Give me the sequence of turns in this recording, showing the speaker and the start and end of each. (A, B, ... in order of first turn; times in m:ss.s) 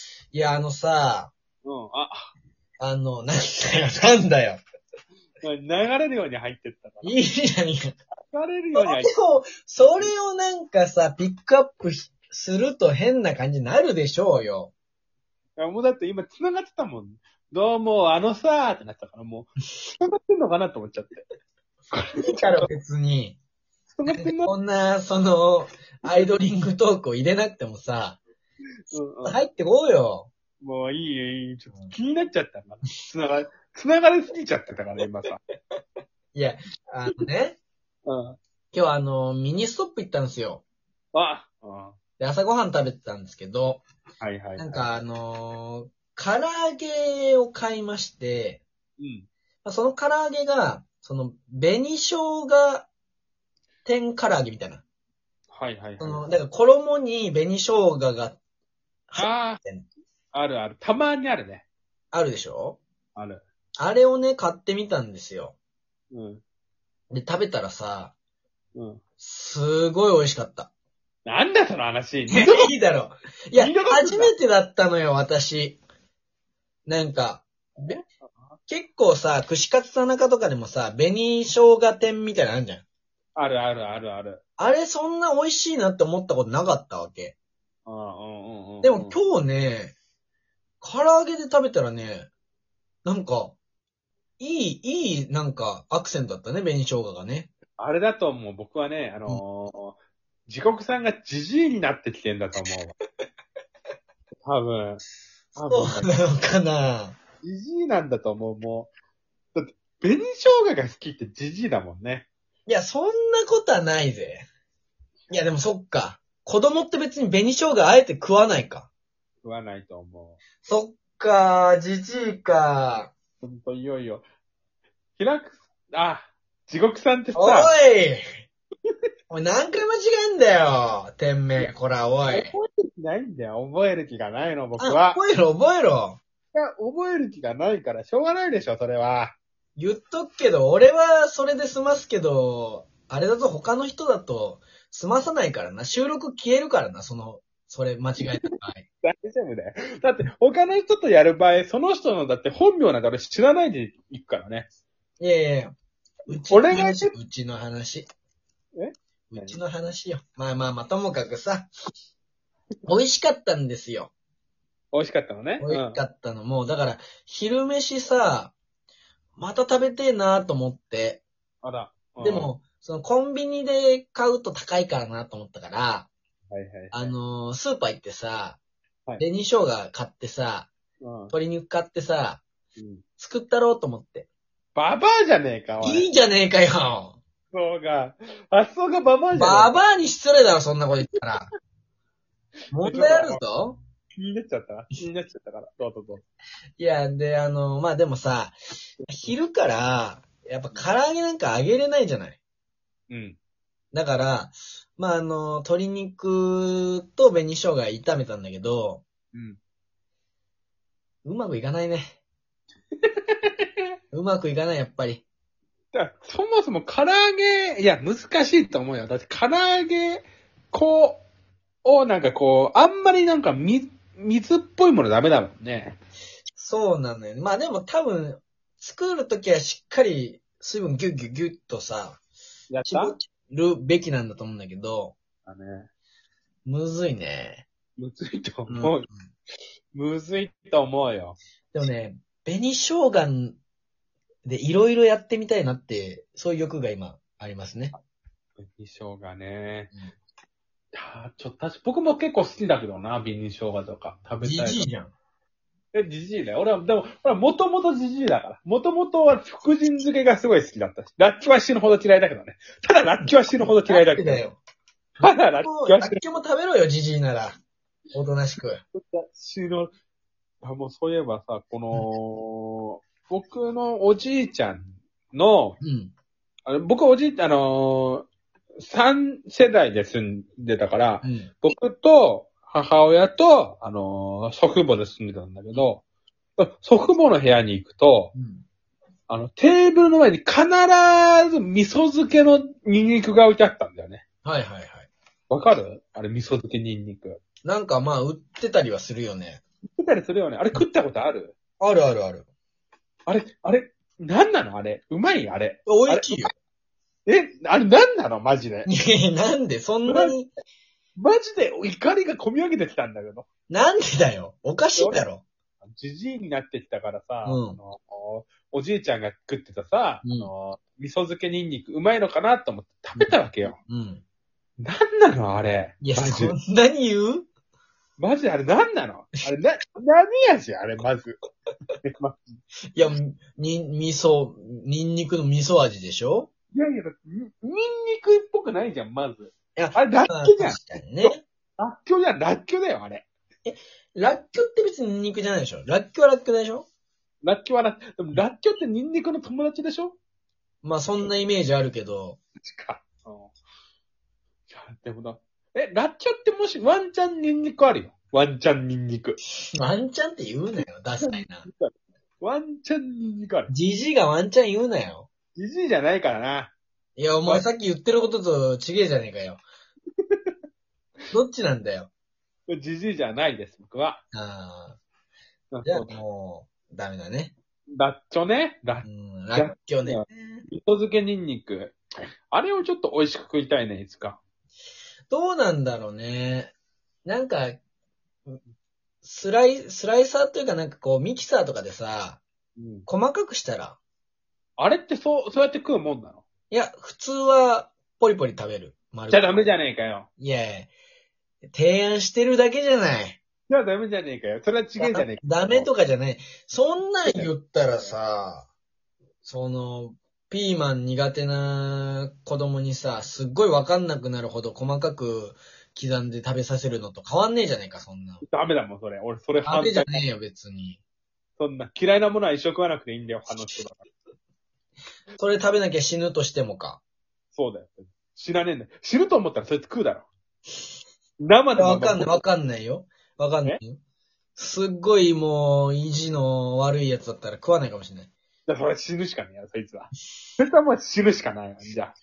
0:00.3-0:01.3 A
0:01.6-0:02.3 B
0:02.8-0:04.6 A
0:05.4-0:07.1 B
0:07.0-0:07.9 A
0:08.2-0:09.1 B
0:08.7-0:14.7 A
0:15.6-0:21.2 B
0:21.9-0:22.7 B
0:22.2-0:23.4 A
0:23.9-0:24.5 B
0:24.0-0:28.2 A
0:28.9-0:29.4 B
0:29.2-0:30.3 A
0:30.6-0:35.4 B
0:36.3-0:37.6 A
0:38.0-0:38.4 B
0:38.7-0:40.6 A
0:41.1-0:42.0 B
0:42.2-0:43.8 A
0:44.2-0:44.8 B
0:44.6-0:48.6 A
0:49.0-0:49.3 B
0:49.6-0:52.9 A
0:53.8-0:54.8 A
0:55.5-0:56.2 B
0:56.0-0:58.4 A
0:59.1-0:59.9 A
0:59.2-0:59.6 B
1:00.3-1:01.6 B
1:02.1-1:02.8 A
1:03.1-1:03.4 B
1:03.8-1:05.6 A
1:06.1-1:06.4 B
1:07.1-1:08.1 A
1:08.7-1:09.0 B
1:09.2-1:10.7 A
1:11.2-1:12.7 B
1:12.3-1:15.8 A
1:13.5-1:14.3 B
1:16.8-1:18.0 A
1:17.9-1:18.3 B
1:18.7-1:22.8 A
1:23.3-1:24.4 B
1:24.6-1:27.3 A
1:27.8-1:29.2 B
1:28.8-1:29.9 A
1:30.8-1:32.3 A
1:33.0-1:33.6 A
1:34.4-1:37.5 A
1:37.8-1:42.9 B
1:44.4-1:45.0 B
1:45.6-1:46.2 B
1:45.6-1:47.2 A
1:47.4-1:48.9 B
1:49.5-1:52.3 B
1:52.7-1:54.4 A
1:55.3-1:58.9 A
1:59.4-2:00.4 B
2:00.6-2:03.1 A
2:03.4-2:04.2 B
2:05.2-2:07.7 B
2:07.3-2:08.3 A
2:09.3-2:12.5 A
2:12.3-2:15.2 B
2:14.8-2:16.2 A
2:16.5-2:19.3 B
2:19.8-2:28.8 A
2:29.0-2:34.7 B
2:35.2-2:35.7 A
2:36.3-2:38.0 A
2:36.3-2:37.1 B
2:38.8-2:39.6 B
2:39.3-2:41.7 A
2:42.8-2:44.1 A
2:44.9-2:46.0 B
2:45.6-2:48.5 A
2:49.4-2:51.2 A
2:51.6-2:52.5 B
2:52.2-2:56.1 A
2:56.5-2:57.1 B
2:56.9-2:58.6 A
2:59.2-3:00.7 A
3:01.0-3:01.3 B
3:01.3-3:02.4 A
3:02.8-3:03.0 B
3:03.2-3:04.3 A
3:04.7-3:06.1 B
3:05.8-3:07.2 A
3:07.5-3:09.8 B
3:09.3-3:11.5 A
3:12.7-3:13.8 A
3:12.7-3:13.4 B
3:14.1-3:16.2 B
3:16.8-3:18.5 A
3:19.1-3:22.4 A
3:23.1-3:23.4 B
3:23.9-3:29.0 A
3:29.3-3:29.6 B
3:31.2-3:32.2 A
3:33.0-3:33.7 B
3:34.1-3:35.2 A
3:35.9-3:41.2 B
3:41.8-3:46.0 B
3:46.6-3:52.2 A
3:52.7-3:53.2 B
3:52.8-3:55.1 A
3:55.4-3:55.9 B
3:56.6-3:57.6 A
3:58.0-3:59.1 B
3:58.7-3:59.3 A
3:59.9-4:01.4 B
4:01.7-4:03.6 A
4:04.4-4:07.9 A
4:08.6-4:09.9 B
4:10.9-4:14.9 B
4:14.4-4:15.1 A
4:15.9-4:24.4 B
4:23.8-4:24.6 A
4:25.2-4:26.2 B
4:25.2-4:27.5 A
4:28.1-4:28.8 A
4:29.0-4:29.9 B
4:30.6-4:35.8 B
4:35.8-4:36.1 A
4:36.7-4:38.3 B
4:38.8-4:46.0 B
4:41.2-4:41.5 A
4:46.6-4:48.3 B
4:48.4-4:48.6 A
4:49.3-4:54.2 B
4:54.4-4:55.1 A
4:55.5-4:57.4 B
4:57.6-4:59.6 A
5:00.0-5:01.5 B
5:01.8-5:02.5 A
5:03.3-5:06.5 B
5:05.8-5:06.5 A
5:07.2-5:08.9 B
5:08.8-5:10.5 A
5:10.0-5:10.4 B
5:11.2-5:13.5 B
5:13.7-5:15.4 A
5:15.0-5:15.2 B
5:15.8-5:23.7 B
5:17.4-5:17.8 A
5:20.2-5:20.5 A
5:23.2-5:24.2 A
5:24.8-5:26.5 B
5:26.0-5:27.5 A
5:28.2-5:31.4 B
5:32.0-5:32.4 B
5:32.9-5:36.5 A
5:36.7-5:43.2 B
5:39.8-5:41.4 A
5:43.6-5:46.8 A
5:47.4-5:50.2 B
5:50.8-5:52.4 A
5:52.6-5:53.5 B
5:54.7-5:59.4 B
5:59.7-6:01.7 A
6:01.2-6:03.7 B
6:03.7-6:05.3 A
6:05.5-6:06.7 B
6:07.2-6:09.6 A
6:10.2-6:10.5 B
6:11.3-6:12.1 A
6:12.7-6:14.2 B
6:14.3-6:15.0 A
6:15.7-6:16.2 B
6:15.8-6:17.5 A
6:17.9-6:22.0 B
6:19.0-6:20.6 A
6:22.5-6:24.4 B
6:25.3-6:26.7 A
6:27.2-6:27.8 A
6:29.2-6:32.4 A
6:32.8-6:33.0 B
6:33.1-6:34.0 A
6:34.8-6:36.4 B
6:36.7-6:39.7 A
6:39.3-6:40.3 B
6:40.4-6:40.9 A
6:41.7-6:43.4 A
6:43.7-6:45.9 B
6:45.0-6:48.7 A
6:47.2-6:48.1 B
6:49.4-6:58.4 A
6:58.4-7:00.2 B
6:59.6-7:01.0 A
7:01.6-7:04.0 B
7:05.4-7:07.0 A
7:07.5-7:10.3 B
7:11.4-7:12.4 B
7:11.8-7:14.0 A
7:14.6-7:18.3 A
7:18.7-7:22.1 B